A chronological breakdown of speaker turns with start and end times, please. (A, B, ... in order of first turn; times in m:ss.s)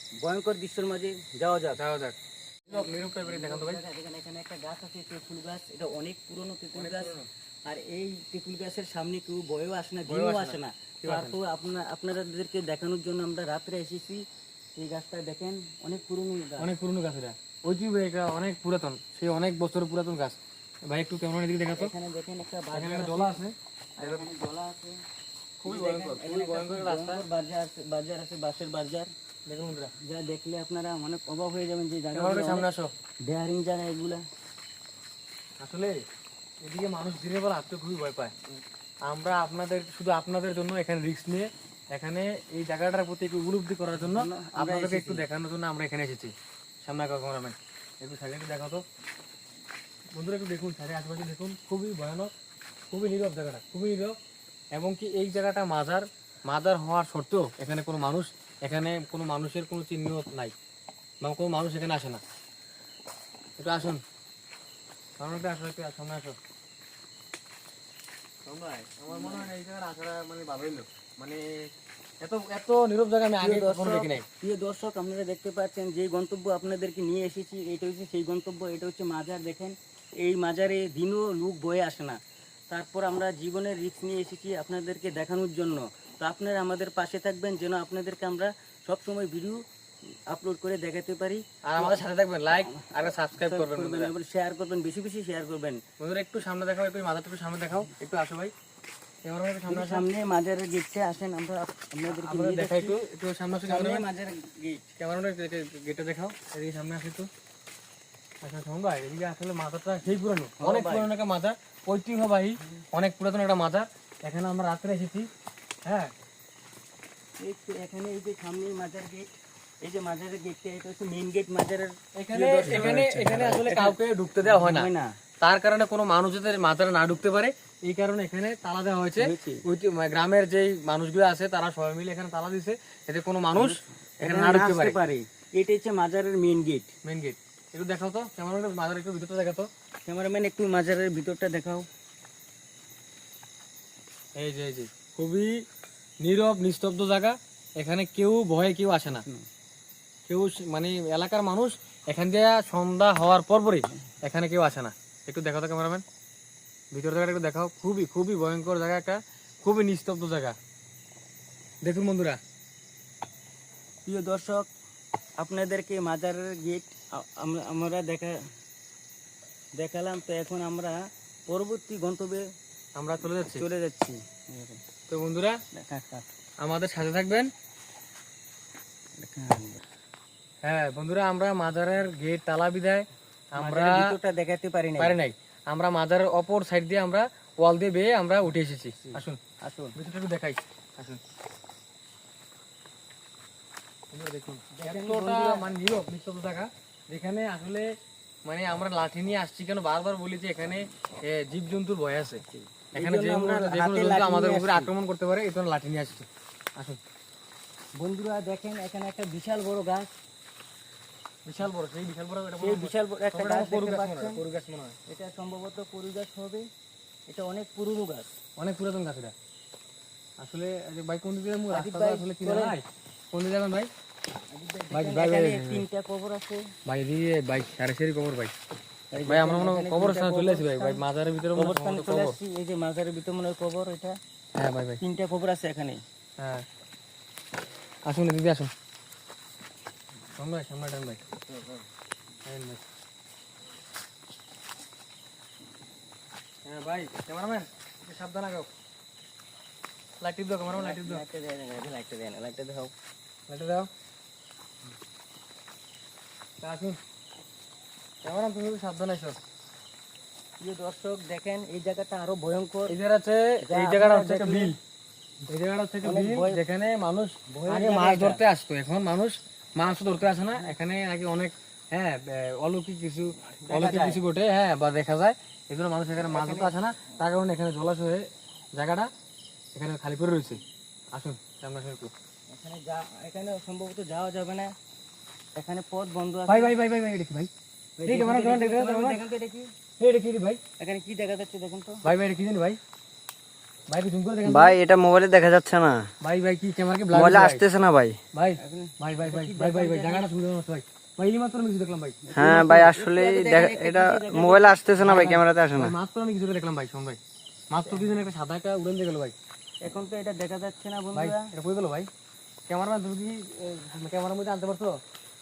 0:00.2-0:01.8 A
0:01.8-0:02.1 B
0:02.7-0:03.8 B
0:02.7-0:07.1 A
0:06.7-0:07.3 B
0:07.7-0:14.2 A
0:10.0-0:11.4 B
0:14.8-0:16.7 A
0:16.6-0:21.9 B
0:21.7-0:23.4 A
0:22.7-0:24.2 B
0:24.0-0:25.0 A
0:25.6-0:27.2 B
0:25.6-0:29.1 A
0:29.5-0:29.9 B
0:30.0-0:32.7 A
0:32.1-0:32.9 B
0:33.3-0:34.2 A
0:35.6-0:36.0 B
0:36.6-0:38.3 B
0:39.0-0:48.8 B
0:44.0-0:45.2 A
0:50.1-0:52.3 B
0:52.9-0:54.2 B
0:54.7-1:00.5 B
1:01.2-1:02.2 B
1:03.6-1:04.0 B
1:05.2-1:06.4 B
1:08.4-1:14.2 B
1:09.1-1:09.5 A
1:13.4-1:22.2 A
1:22.7-1:29.6 A
1:30.3-1:32.0 A
1:31.6-1:34.1 B
1:32.7-1:35.8 A
1:36.0-1:38.5 B
1:39.2-1:40.0 B
1:39.6-1:43.0 A
1:42.1-1:44.0 B
1:43.6-1:44.8 A
1:45.0-1:47.3 B
1:48.4-1:55.3 B
1:50.6-1:51.1 A
1:55.8-1:56.1 B
1:57.4-1:59.3 A
1:59.8-2:05.1 A
2:02.2-2:04.9 B
2:05.4-2:15.0 B
2:09.2-2:09.6 A
2:13.5-2:16.9 A
2:17.0-2:19.7 B
2:20.0-2:21.9 A
2:24.4-2:25.6 B
2:26.2-2:29.2 B
2:29.0-2:29.4 A
2:30.3-2:36.0 B
2:36.9-2:40.5 B
2:41.8-2:42.4 B
2:44.0-2:44.7 A
2:45.4-2:48.4 A
2:49.8-2:52.4 A
2:53.0-2:53.7 B
2:53.5-2:54.8 A
2:55.1-2:55.6 B
2:55.7-2:56.2 A
2:56.6-2:57.5 B
2:59.2-2:59.8 A
3:00.6-3:04.1 B
3:03.6-3:05.2 A
3:05.0-3:09.4 B
3:09.0-3:09.9 A
3:09.9-3:11.2 B
3:14.1-3:17.9 B
3:14.7-3:15.7 A
3:18.4-3:22.4 B
3:22.5-3:24.9 A
3:22.9-3:27.0 B
3:28.0-3:30.1 A
3:31.4-3:35.0 B
3:32.6-3:34.4 A
3:35.1-3:36.7 A
3:37.3-3:38.3 A
3:38.6-3:39.3 B
3:40.4-3:43.9 B
3:41.7-3:42.8 A
3:44.5-3:46.6 A
3:44.9-3:45.8 B
3:46.9-3:48.5 B
3:49.1-3:51.0 A
3:49.2-3:52.4 B
3:51.5-3:54.2 A
3:54.6-3:55.0 B
3:55.0-3:56.0 A
3:56.4-3:56.6 B
3:58.1-3:58.7 B
4:00.4-4:01.2 B
4:02.4-4:02.8 B
4:06.6-4:08.7 B
4:10.2-4:11.2 B
4:10.7-4:12.9 A
4:13.5-4:13.9 B
4:16.6-4:17.0 B
4:18.2-4:19.4 B
4:20.6-4:22.9 A
4:22.9-4:24.8 B
4:23.6-4:24.7 A
4:25.5-4:39.1 B
4:26.0-4:26.6 A
4:27.5-4:28.4 A
4:33.6-4:34.2 A
4:36.2-4:37.1 A
4:39.7-4:40.6 B
4:41.1-4:42.1 B
4:42.5-4:44.7 A
4:45.5-4:46.7 A
4:46.5-4:47.5 B
4:48.0-4:49.7 A
4:48.0-4:49.2 B
4:50.0-4:50.6 B
4:50.8-4:52.0 A
4:52.0-4:52.8 B
4:53.9-4:54.8 B
4:54.4-4:56.0 C
4:56.2-4:57.6 B
4:57.1-4:58.2 C
4:58.3-5:02.2 B
4:58.6-5:00.3 A
5:02.3-5:04.8 A
5:02.3-5:05.9 C
5:05.0-5:07.2 B
5:07.7-5:09.3 B
5:09.8-5:11.4 A
5:11.1-5:12.1 B
5:12.7-5:15.0 B